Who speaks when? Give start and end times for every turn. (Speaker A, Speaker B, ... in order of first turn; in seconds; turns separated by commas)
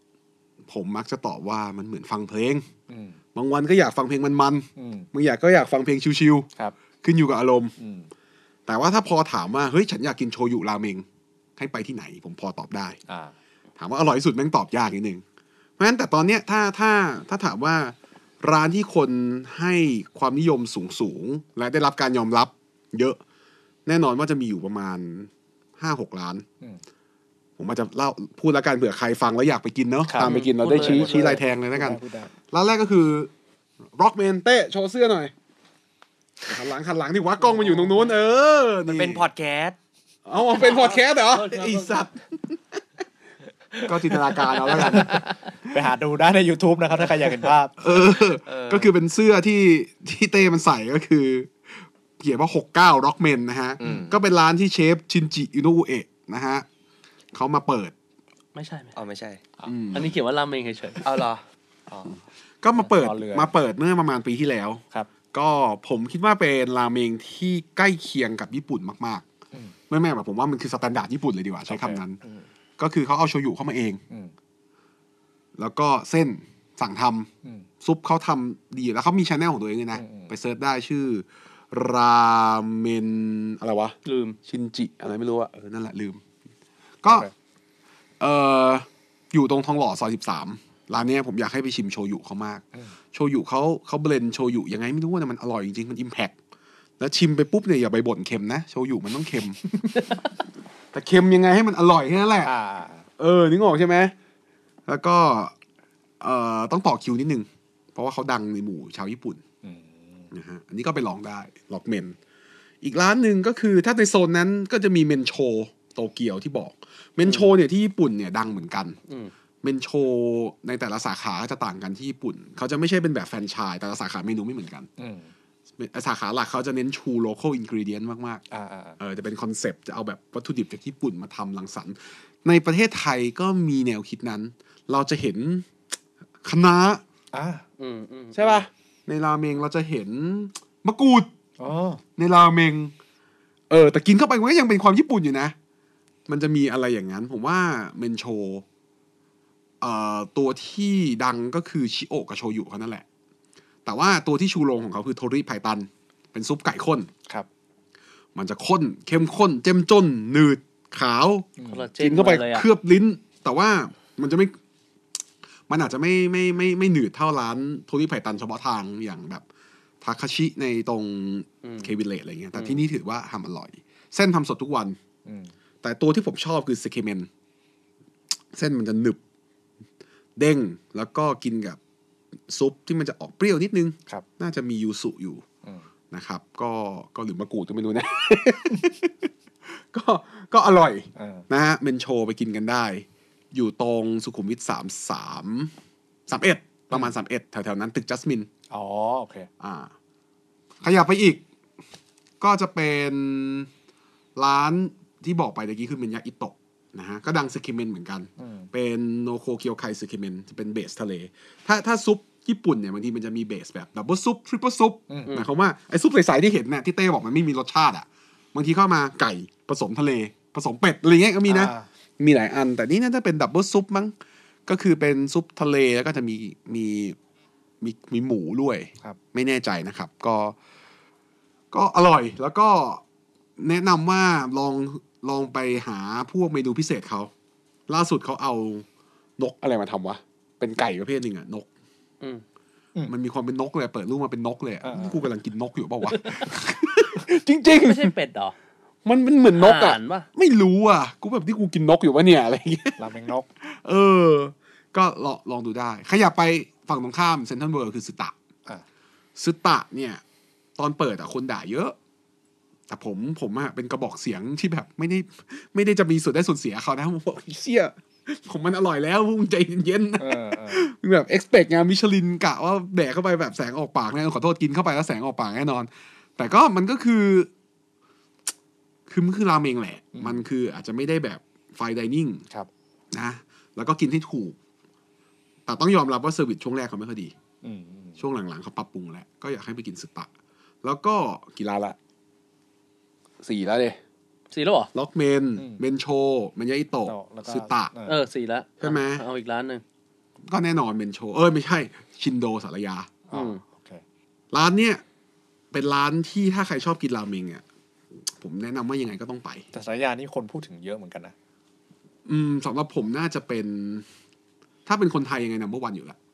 Speaker A: 0.7-2.6, Speaker B: 2.9-3.2, Speaker A: 3.3-6.5, Speaker B: 4.8-5.1, Speaker A: 7.0-7.7, Speaker B: 7.8-8.1, Speaker A: 8.7-11.0, Speaker A: 11.6-13.0, Speaker B: 13.1-13.3, Speaker A: 13.8-15.2, Speaker A: 15.8-23.2, Speaker A: 23.9-26.4, Speaker A: 27.6-33.3, Speaker B: 30.1-32.3, Speaker C: 30.2-31.4, Speaker A: 33.9-35.3, Speaker A: 36.5-39.2, Speaker D: 38.9-39.8, Speaker A: 40.2-42.8, Speaker C: 40.5-42.1, Speaker C: 43.8-45.3, Speaker A: 43.8-45.2, Speaker B: 45.6-47.7, Speaker A: 47.8-56.6, Speaker D: 48.4-48.9, Speaker D: 53.8-54.2, Speaker A: 57.3-57.9, Speaker C: 58.5-58.9, Speaker D: 58.9-59.4, Speaker A: 59.6-60.1, Speaker C: 59.9-61.1, Speaker D: 61.0-61.4, Speaker B: 61.9-62.2, Speaker A: 62.6-69.2, Speaker B: 62.8-63.5, Speaker A: 69.9-72.2, Speaker B: 71.7-72.4, Speaker A: 72.8-74.0, Speaker A: 75.6-77.3, Speaker A: 77.8-86.2, Speaker B: 79.9-80.3, Speaker C: 84.0-84.4, Speaker A: 87.0-87.3, Speaker A: 88.2-96.3, Speaker A: 97.0-100.2, Speaker A: 100.9-102.5, Speaker B: 102.4-103.0, Speaker A: 103.2-104.1, Speaker A: 104.9-105.5, Speaker A: 106.2-109.4, Speaker B: 109.6-110.3, Speaker A: 110.3-112.2, Speaker A: 112.8-119.0, Speaker C: 117.2-117.5, Speaker A: 119.6-124.9, Speaker B: 125.0-125.3, Speaker A: 125.8-128.4, Speaker B: 128.5-129.0, Speaker A: 129.0-135.7, Speaker A: 136.4-137.0, Speaker B: 137.3-137.6, Speaker C: 137.8-138.6, Speaker A: 138.3-141.3, Speaker B: 141.6-142.0, Speaker A: 142.2-142.9, Speaker A: 143.7-145.5, Speaker A: 146.3-148.6, Speaker A: 149.8-153.0, Speaker A: 153.8-157.1, Speaker A: 158.3-164.5, Speaker B: 161.6-161.8, Speaker C: 161.7-162.7, Speaker A: 165.7-169.4, Speaker A: 170.0-175.0, Speaker C: 171.6-171.9, Speaker C: 172.5-172.8, Speaker B: 175.2-175.5, Speaker A: 175.8-177.3, Speaker A: 178.5-179.2, Speaker A: 180.4-181.8, Speaker A: 182.5-185.4, Speaker A: 186.1-195.7, Speaker B: 191.2-191.4, Speaker A: 196.3-198.5, Speaker B: 198.7-199.5, Speaker A: 199.6-199.9, Speaker A: 200.8-201.4, Speaker A: 202.4-203.7, Speaker A: 204.3-224.1, Speaker B: 208.4-208.7, Speaker B: 221.5-221.9, Speaker A: 224.7-227.2, Speaker A: 227.8-230.6, Speaker A: 231.7-233.0, Speaker A: 233.6-237.3, Speaker A: 237.9-238.8, Speaker A: 239.4-241.7, Speaker A: 243.1-248.1, Speaker B: 244.8-245.2, Speaker C: 246.1-246.4, Speaker C: 247.7-248.5, Speaker A: 249.0-253.0, Speaker C: 249.5-250.3, Speaker B: 253.0-253.5, Speaker A: 253.6-258.3, Speaker A: 259.4-260.2, Speaker A: 260.8-261.9, Speaker A: 262.9-277.5, Speaker B: 270.2-270.9, Speaker A: 279.1-282.4, Speaker B: 280.1-280.4, Speaker A: 283.1-284.6, Speaker A: 285.6-287.3, Speaker B: 287.6-288.2, Speaker A: 288.2-290.3, Speaker A: 290.8-292.0, Speaker A: 293.4-294.0, Speaker C: 294.5-294.9, Speaker A: 294.9-297.9, Speaker B: 297.1-298.1, Speaker C: 298.1-299.8, Speaker A: 298.8-299.2, Speaker A: 300.4-303.2, Speaker B: 303.3-304.0, Speaker C: 303.3-303.6, Speaker A: 304.5-305.0, Speaker A: 305.7-307.6, Speaker A: 308.2-309.6, Speaker B: 309.7-311.3, Speaker A: 312.2-314.1, Speaker A: 314.9-316.2